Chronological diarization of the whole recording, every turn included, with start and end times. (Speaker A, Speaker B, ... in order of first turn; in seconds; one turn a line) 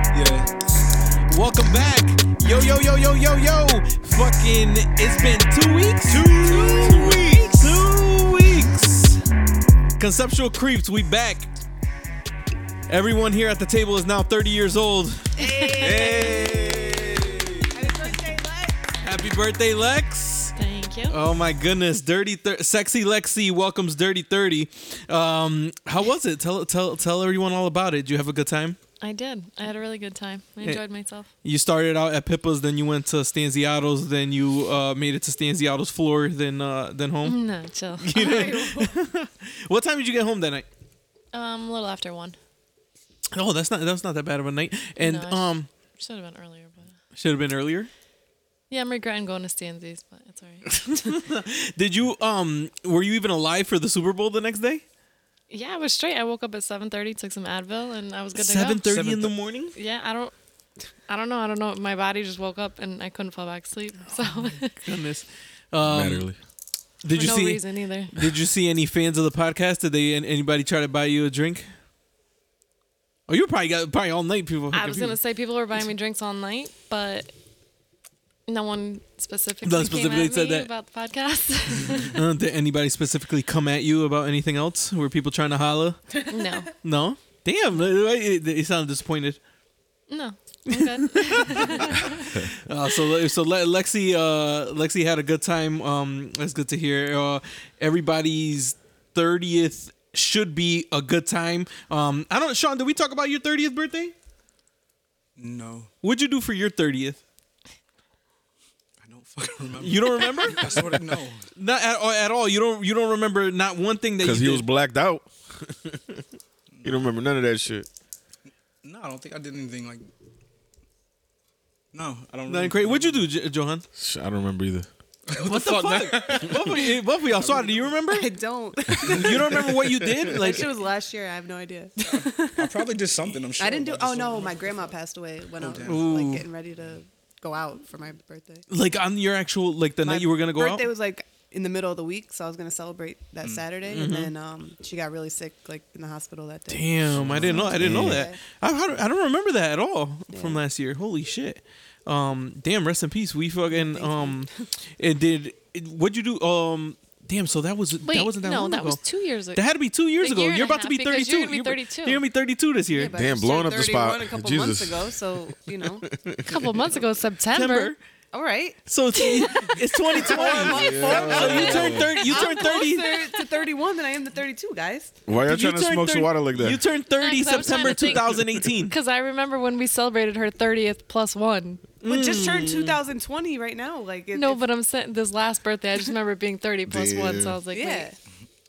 Speaker A: 0.1-0.5
Speaker B: 1.3-9.2
Speaker A: 6.1-7.4
Speaker B: 10.0-11.5
Speaker B: 12.9-15.9
Speaker C: 15.4-16.9
Speaker A: 15.7-17.9
Speaker C: 17.7-18.9
Speaker B: 19.0-20.6
Speaker D: 20.6-21.2
Speaker B: 21.1-28.8
Speaker D: 29.0-31.3
Speaker B: 31.4-37.4
Speaker D: 37.2-38.5
Speaker B: 38.0-40.7
Speaker C: 38.1-39.0
Speaker D: 41.3-42.4
Speaker B: 43.3-45.7
Speaker D: 45.0-46.9
Speaker B: 47.1-47.9
Speaker D: 48.7-51.1
Speaker B: 50.7-54.8
Speaker D: 55.5-58.9
Speaker B: 58.4-59.8
Speaker A: 58.9-59.3
Speaker D: 59.8-60.3
Speaker D: 61.1-64.8
Speaker B: 64.8-66.3
Speaker E: 65.8-66.4
Speaker B: 67.0-71.7
Speaker D: 67.1-68.3
Speaker B: 73.3-75.2
Speaker D: 74.7-77.3
Speaker D: 78.5-82.2
Speaker B: 79.7-80.7
Speaker B: 82.1-86.3
Speaker D: 86.3-86.7
Speaker B: 86.8-89.4
Speaker D: 90.1-92.3
Speaker B: 90.7-91.9
Speaker B: 92.5-104.1
Speaker A: 105.4-105.9
Speaker B: 106.0-107.2
Speaker A: 109.0-111.4
Speaker B: 109.8-110.8
Speaker B: 111.6-114.7
Speaker E: 114.2-116.2
Speaker A: 116.7-117.0
Speaker E: 116.8-117.9
Speaker A: 118.8-120.1
Speaker A: 121.9-123.3
Speaker B: 122.5-123.8
Speaker E: 124.0-124.9
Speaker A: 125.3-126.9
Speaker B: 125.4-128.3
Speaker C: 128.0-133.0
Speaker B: 129.0-130.7
Speaker A: 129.1-130.1
Speaker A: 132.0-134.9
Speaker C: 133.6-138.7
Speaker A: 135.6-136.1
Speaker B: 135.8-136.5
Speaker B: 138.7-140.9
Speaker C: 140.0-148.4
Speaker B: 143.9-144.3
Speaker B: 146.7-159.0
Speaker A: 147.2-147.7
Speaker E: 147.7-148.3
Speaker C: 150.3-150.6
Speaker C: 153.7-154.5
Speaker D: 158.0-159.6
Speaker B: 159.5-163.2
Speaker D: 160.2-162.2
Speaker C: 162.9-166.1
Speaker E: 163.1-165.2
Speaker E: 165.9-167.0
Speaker D: 166.5-167.9
Speaker B: 167.5-168.0
Speaker C: 168.3-175.2
Speaker B: 168.9-173.4
Speaker E: 170.5-172.2
Speaker E: 175.3-176.8
Speaker B: 175.5-178.9
Speaker D: 177.2-181.8
Speaker B: 182.0-183.0
Speaker C: 182.0-184.6
Speaker D: 184.3-188.1
Speaker E: 186.9-187.6
Speaker C: 187.7-188.2